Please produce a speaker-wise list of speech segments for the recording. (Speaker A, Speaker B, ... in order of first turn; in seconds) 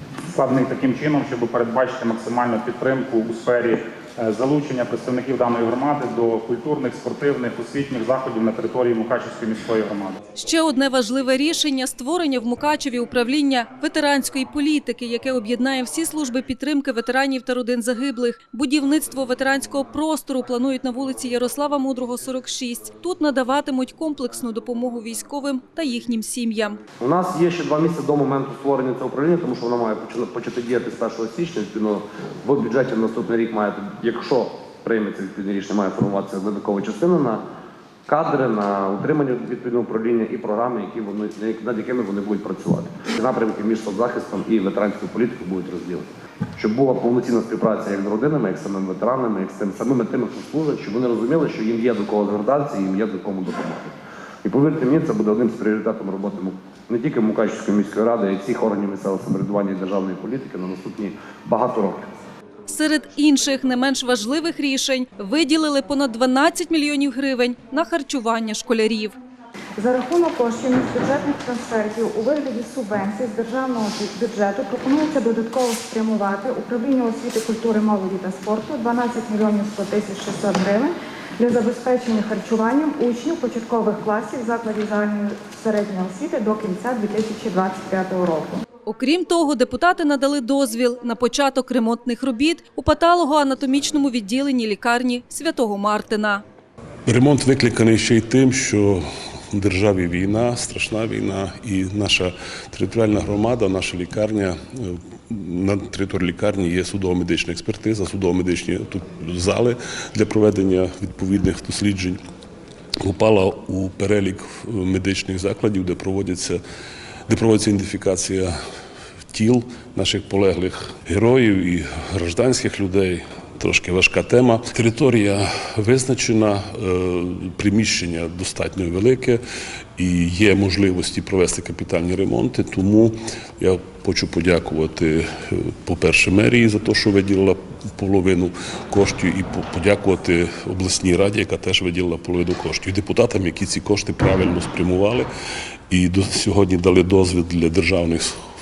Speaker A: 0.3-10.2
Speaker B: 10.3-26.8, 62.7-69.2, 88.8-96.4
Speaker C: 27.0-37.4, 38.1-62.1
Speaker D: 69.8-88.7
Speaker E: 97.1-112.2, 113.0-116.6, 117.3-118.5, 119.3-129.4, 130.0-145.3, 145.9-148.3